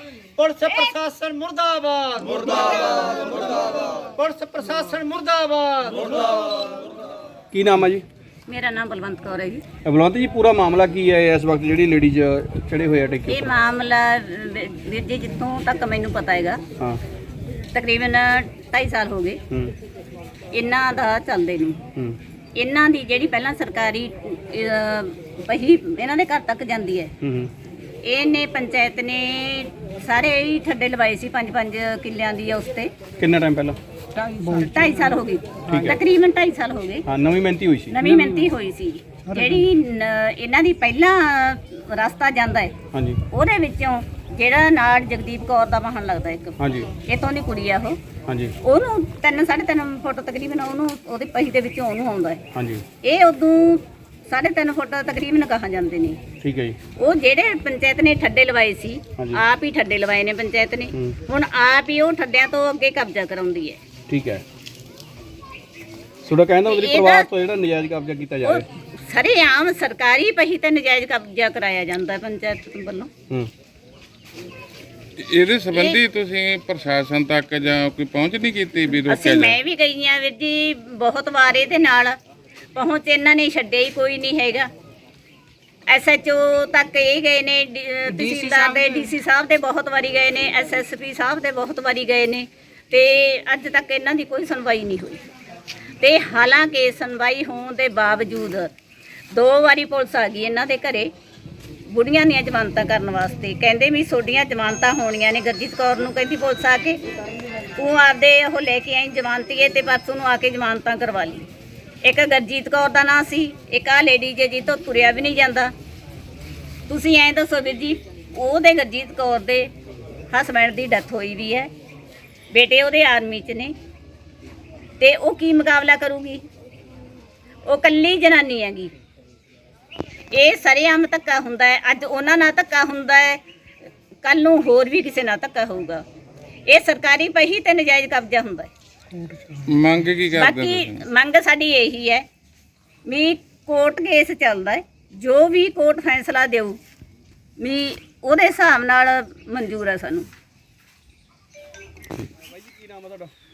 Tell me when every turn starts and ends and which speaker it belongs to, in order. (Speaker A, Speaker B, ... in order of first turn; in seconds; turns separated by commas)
Speaker A: 0.4-2.3, Speaker B: 0.7-0.9, Speaker B: 2.6-3.1, Speaker A: 4.2-6.0, Speaker C: 7.5-8.0, Speaker B: 8.5-9.6, Speaker C: 9.8-13.5, Speaker B: 13.3-16.6, Speaker B: 17.7-19.4, Speaker B: 20.5-21.8, Speaker B: 22.6-27.1, Speaker C: 27.2-27.5, Speaker B: 28.0-32.9, Speaker C: 33.2-33.8, Speaker B: 34.5-37.0, Speaker C: 35.7-36.0, Speaker C: 37.1-38.0, Speaker B: 37.9-42.7, Speaker C: 42.9-43.2, Speaker B: 43.3-46.5, Speaker C: 46.6-46.9, Speaker B: 47.1-48.0, Speaker C: 48.3-48.5, Speaker B: 48.6-52.4, Speaker C: 52.5-52.8, Speaker B: 53.0-56.2, Speaker C: 56.4-56.8, Speaker B: 57.0-63.8, Speaker C: 64.1-64.4, Speaker C: 66.2-68.7, Speaker B: 66.6-67.3, Speaker B: 68.4-73.1, Speaker D: 75.2-79.6, Speaker B: 75.7-76.0, Speaker B: 79.0-82.1, Speaker B: 82.8-84.7, Speaker B: 85.9-95.2, Speaker B: 96.0-98.7, Speaker B: 99.3-101.1, Speaker B: 101.9-107.0, Speaker B: 107.8-111.4, Speaker B: 112.0-115.7, Speaker B: 116.9-119.7, Speaker B: 120.3-121.7, Speaker B: 122.5-123.7, Speaker B: 125.0-126.4, Speaker B: 127.7-129.0, Speaker B: 130.3-133.4, Speaker B: 134.2-136.0, Speaker B: 136.7-138.7, Speaker D: 139.7-141.0, Speaker B: 140.3-142.2, Speaker B: 143.1-146.8, Speaker B: 147.6-150.3, Speaker C: 152.3-153.3